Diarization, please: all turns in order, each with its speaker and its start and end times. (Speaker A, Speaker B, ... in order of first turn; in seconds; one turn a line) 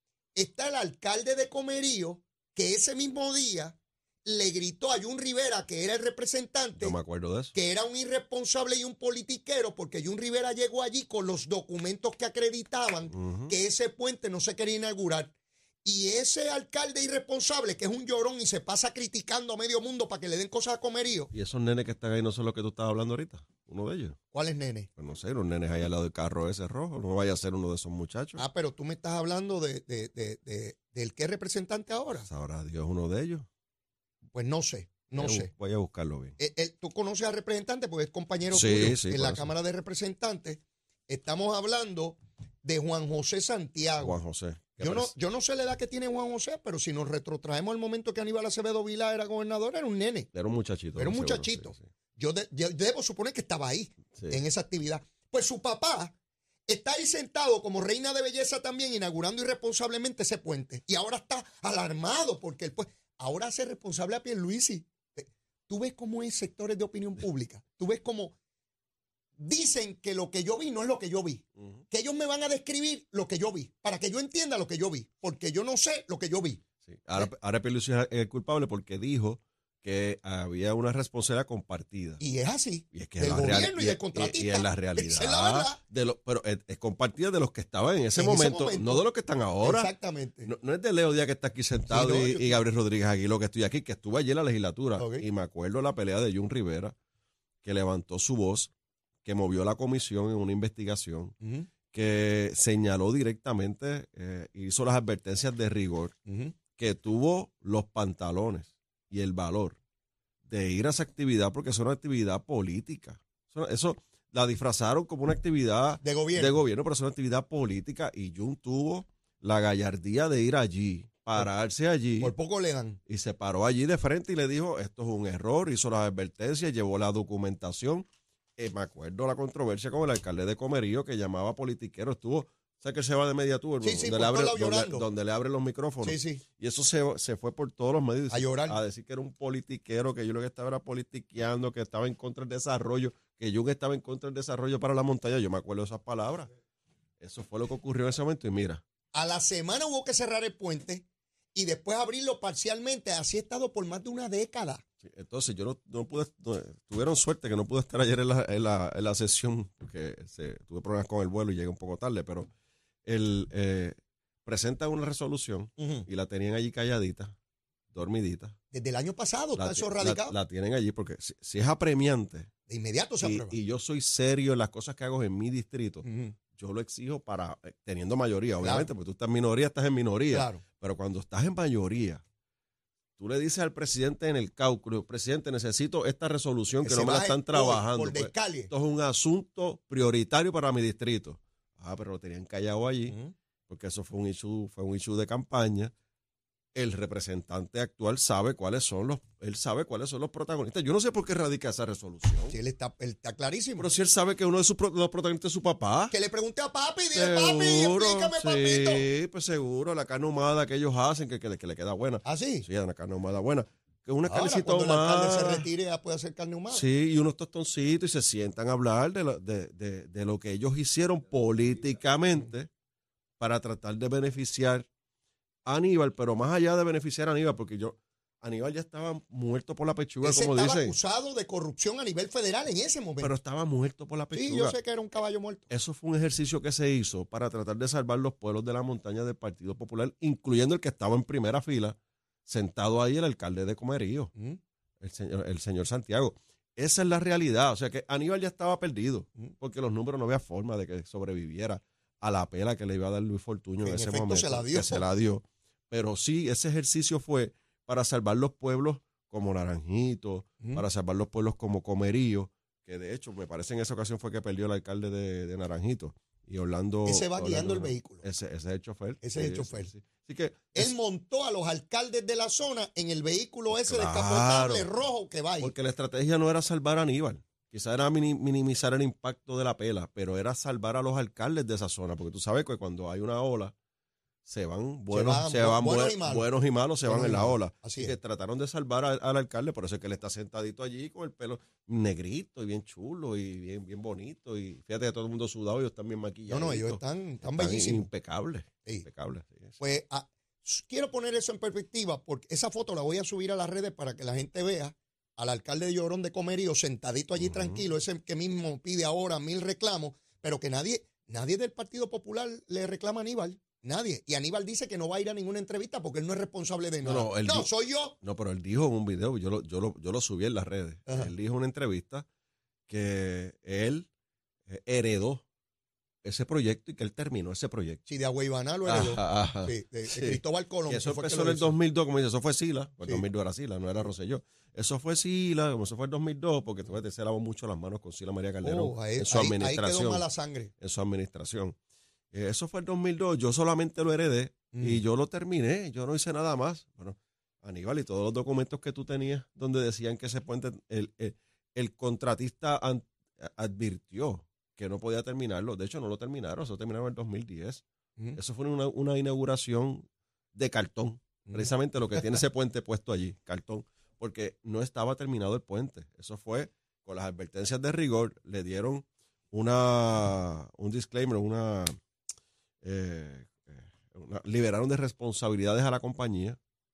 Speaker A: 0.3-7.0
Speaker B: 6.8-7.5
Speaker A: 7.5-15.3
Speaker B: 13.1-13.5
Speaker A: 15.8-21.3
Speaker B: 21.3-24.2
Speaker A: 24.3-24.9
Speaker B: 25.0-28.4
Speaker A: 28.4-32.3
Speaker B: 32.3-33.5
Speaker A: 34.3-35.5
Speaker B: 35.1-36.3
Speaker A: 36.4-44.1
Speaker B: 38.5-39.5
Speaker B: 44.0-45.1
Speaker A: 44.8-50.3
Speaker B: 50.3-51.8
Speaker A: 51.0-56.1
Speaker A: 56.7-68.3
Speaker A: 69.4-76.6
Speaker B: 76.8-82.2
Speaker A: 82.2-85.8
Speaker B: 82.9-89.9
Speaker A: 88.2-89.0
Speaker A: 89.6-90.5
Speaker B: 90.4-96.9
Speaker A: 91.9-92.6
Speaker A: 95.0-95.2
Speaker B: 97.6-98.7
Speaker B: 99.2-101.3
Speaker A: 101.4-101.7
Speaker B: 101.9-106.1
Speaker A: 106.3-106.5
Speaker B: 106.7-109.8
Speaker B: 110.4-122.3
Speaker A: 116.0-116.6
Speaker A: 122.2-123.0
Speaker B: 123.1-128.1
Speaker B: 128.6-146.5
Speaker A: 133.8-135.1
Speaker A: 136.0-136.4
Speaker A: 138.3-138.8
Speaker B: 147.2-148.8
Speaker A: 149.1-154.8
Speaker B: 155.0-162.5
Speaker B: 163.0-167.3
Speaker A: 165.8-166.1
Speaker B: 167.9-168.6
Speaker A: 168.7-170.3
Speaker B: 169.6-172.5
Speaker A: 172.7-173.6
Speaker B: 173.2-182.2
Speaker A: 176.0-176.3
Speaker A: 178.6-178.9
Speaker A: 180.3-180.6
Speaker B: 183.2-193.2
Speaker A: 186.8-188.7
Speaker A: 193.1-193.3
Speaker B: 193.7-195.9
Speaker B: 196.7-202.5
Speaker A: 202.5-203.9
Speaker B: 203.8-206.1
Speaker A: 206.1-209.0
Speaker B: 207.1-215.7
Speaker A: 212.2-212.7
Speaker A: 214.2-216.8
Speaker B: 216.7-222.7
Speaker B: 223.4-224.9
Speaker B: 225.7-230.9
Speaker A: 230.2-233.3
Speaker B: 233.2-234.8
Speaker A: 234.3-235.7
Speaker B: 235.7-244.3
Speaker B: 245.0-270.9
Speaker A: 253.8-255.0
Speaker A: 267.1-268.2
Speaker A: 269.2-269.9
Speaker A: 270.7-275.7
Speaker B: 273.7-274.9
Speaker B: 275.6-283.7
Speaker B: 284.4-299.8
Speaker A: 285.1-286.4
Speaker A: 287.0-288.1
Speaker A: 296.5-298.1
Speaker A: 299.8-318.1
Speaker B: 307.4-307.8
Speaker B: 317.0-322.2
Speaker A: 321.1-321.3
Speaker B: 322.9-324.1
Speaker B: 324.7-325.4
Speaker B: 326.2-328.0
Speaker A: 328.1-331.7
Speaker B: 328.9-340.2
Speaker A: 338.6-340.7
Speaker B: 340.8-341.8
Speaker B: 342.3-357.8
Speaker A: 344.7-345.0
Speaker B: 358.3-372.0
Speaker B: 372.8-376.6